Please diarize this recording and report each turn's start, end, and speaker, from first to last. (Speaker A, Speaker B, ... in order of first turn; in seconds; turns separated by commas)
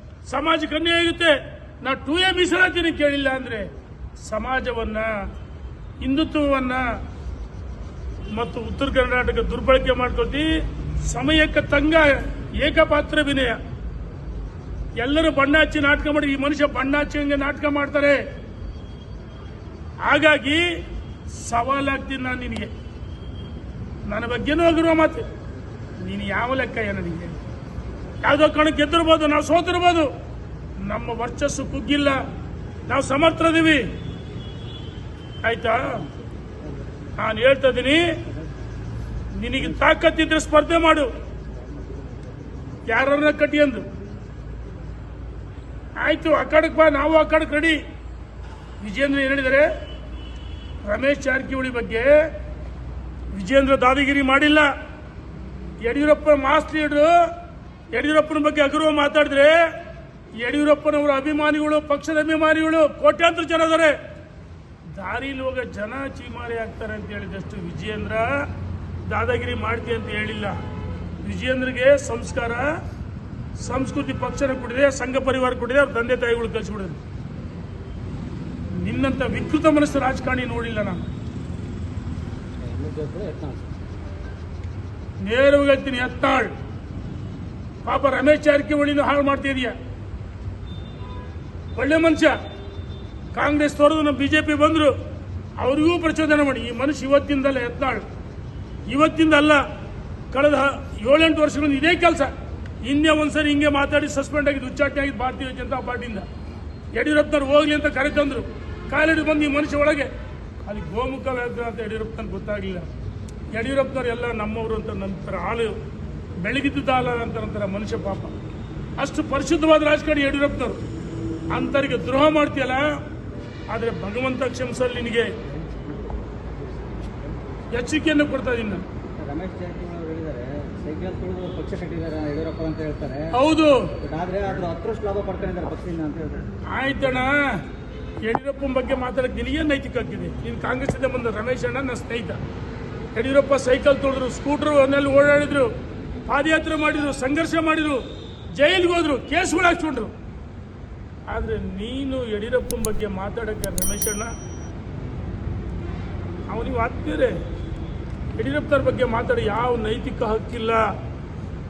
Speaker A: 0.2-3.7, Speaker A: 4.2-5.3, Speaker A: 6.0-7.0, Speaker A: 8.3-13.6, Speaker A: 15.0-18.2, Speaker A: 20.0-20.8, Speaker A: 21.3-22.7, Speaker A: 24.1-25.3, Speaker A: 26.0-27.4, Speaker A: 28.2-30.1, Speaker A: 30.8-32.2, Speaker A: 32.9-33.9, Speaker A: 35.4-36.1, Speaker A: 37.2-38.2, Speaker A: 39.4-41.1, Speaker A: 42.9-43.9, Speaker A: 46.0-47.8, Speaker A: 48.8-49.7, Speaker A: 50.9-52.3, Speaker A: 53.3-54.7, Speaker A: 55.8-57.3, Speaker A: 57.9-59.7, Speaker A: 60.4-64.0, Speaker A: 64.9-68.5, Speaker A: 69.0-70.6, Speaker A: 71.2-72.8, Speaker A: 73.6-77.0, Speaker A: 78.8-81.1, Speaker B: 82.7-83.6, Speaker A: 85.2-86.5, Speaker A: 87.8-89.8, Speaker A: 91.8-92.4, Speaker A: 93.3-95.0, Speaker A: 95.6-98.0, Speaker A: 98.9-99.6, Speaker A: 100.3-106.3, Speaker A: 106.9-110.1, Speaker A: 110.6-112.9, Speaker A: 113.5-115.8, Speaker A: 116.4-118.3, Speaker A: 119.0-120.8, Speaker A: 121.5-123.0, Speaker A: 123.7-125.4, Speaker A: 127.7-128.8, Speaker B: 129.2-133.3, Speaker A: 133.3-134.0, Speaker B: 134.0-136.5, Speaker A: 136.7-137.6, Speaker A: 138.2-142.4, Speaker A: 143.1-145.7, Speaker A: 146.3-150.1, Speaker A: 151.3-154.3, Speaker A: 156.5-157.4, Speaker A: 158.4-160.9